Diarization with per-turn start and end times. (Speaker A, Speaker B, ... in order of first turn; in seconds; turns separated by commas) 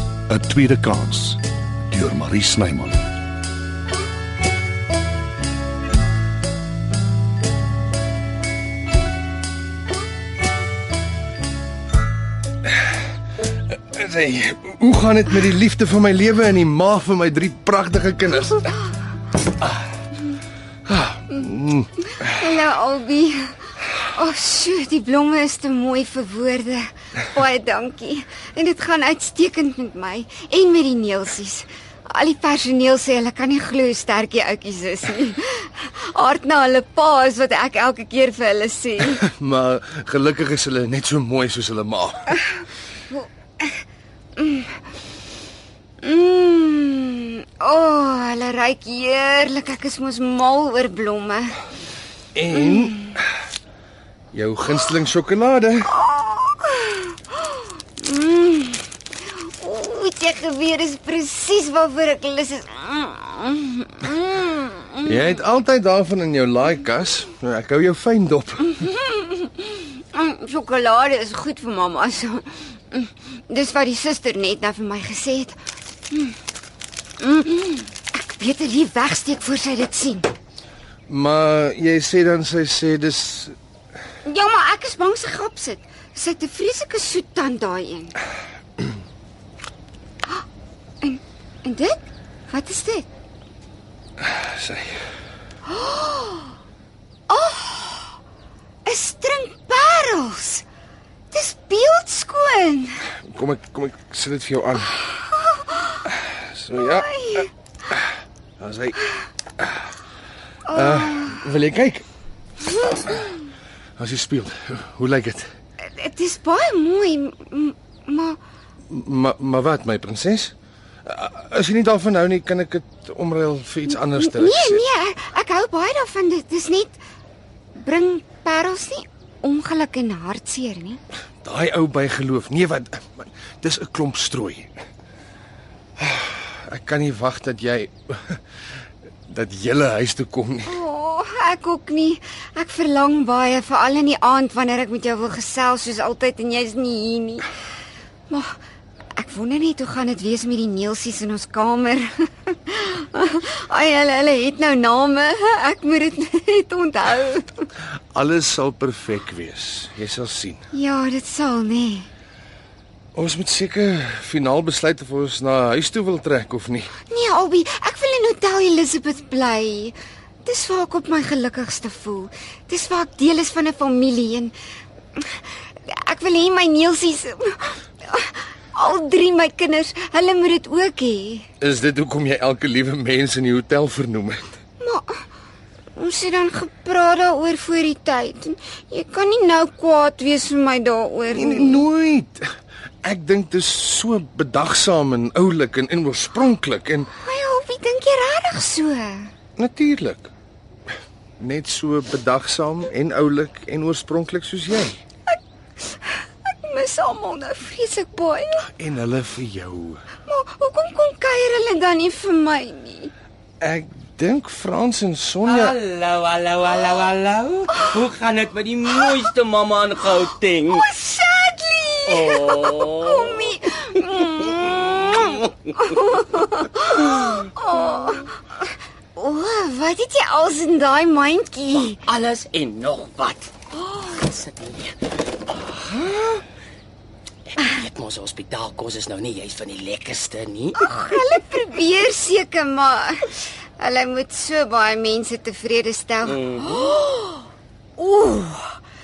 Speaker A: 0.3-3.0, Speaker B: 13.7-18.7, Speaker B: 20.9-21.9, Speaker C: 22.1-23.6, Speaker C: 24.1-39.2, Speaker B: 39.2-42.4, Speaker C: 43.1-43.7, Speaker C: 44.4-44.8, Speaker C: 46.0-51.5, Speaker B: 52.4-53.1, Speaker C: 52.7-53.1, Speaker B: 54.3-55.9, Speaker C: 55.9-65.2, Speaker B: 65.0-68.7, Speaker C: 68.8-75.6, Speaker C: 76.1-76.4, Speaker C: 77.2-80.3, Speaker B: 81.1-83.5, Speaker C: 84.3-88.2, Speaker C: 91.0-93.1, Speaker B: 94.2-95.0, Speaker C: 95.7-96.5, Speaker C: 97.3-98.2, Speaker C: 98.8-100.7, Speaker C: 101.3-103.0, Speaker B: 103.3-105.0, Speaker C: 105.0-106.0, Speaker B: 106.4-107.1, Speaker C: 106.7-107.5, Speaker B: 108.6-109.0, Speaker C: 110.7-111.4, Speaker B: 110.7-112.0, Speaker C: 112.9-113.3, Speaker B: 114.0-115.5, Speaker C: 115.8-118.4, Speaker B: 118.9-120.5, Speaker B: 121.1-124.8, Speaker C: 124.1-127.0, Speaker C: 127.8-131.0, Speaker B: 131.4-134.7, Speaker B: 136.0-138.4, Speaker B: 139.3-140.8, Speaker C: 140.7-147.5, Speaker C: 148.3-148.6, Speaker C: 149.2-157.7, Speaker B: 158.1-160.6, Speaker C: 160.7-162.1, Speaker B: 163.1-166.9, Speaker C: 167.1-174.5, Speaker C: 175.2-181.5, Speaker B: 181.6-184.6, Speaker C: 184.8-185.2, Speaker C: 186.0-191.8, Speaker B: 191.3-192.5, Speaker B: 193.0-197.1, Speaker C: 197.2-199.3, Speaker B: 199.6-200.3, Speaker B: 201.4-205.0, Speaker C: 205.3-208.7, Speaker B: 208.7-210.0, Speaker C: 210.3-213.1, Speaker B: 213.6-215.8, Speaker D: 215.4-220.8, Speaker C: 220.7-232.0, Speaker D: 222.1-225.5, Speaker D: 232.0-236.4, Speaker D: 237.5-240.9, Speaker C: 240.8-248.8, Speaker D: 246.3-246.9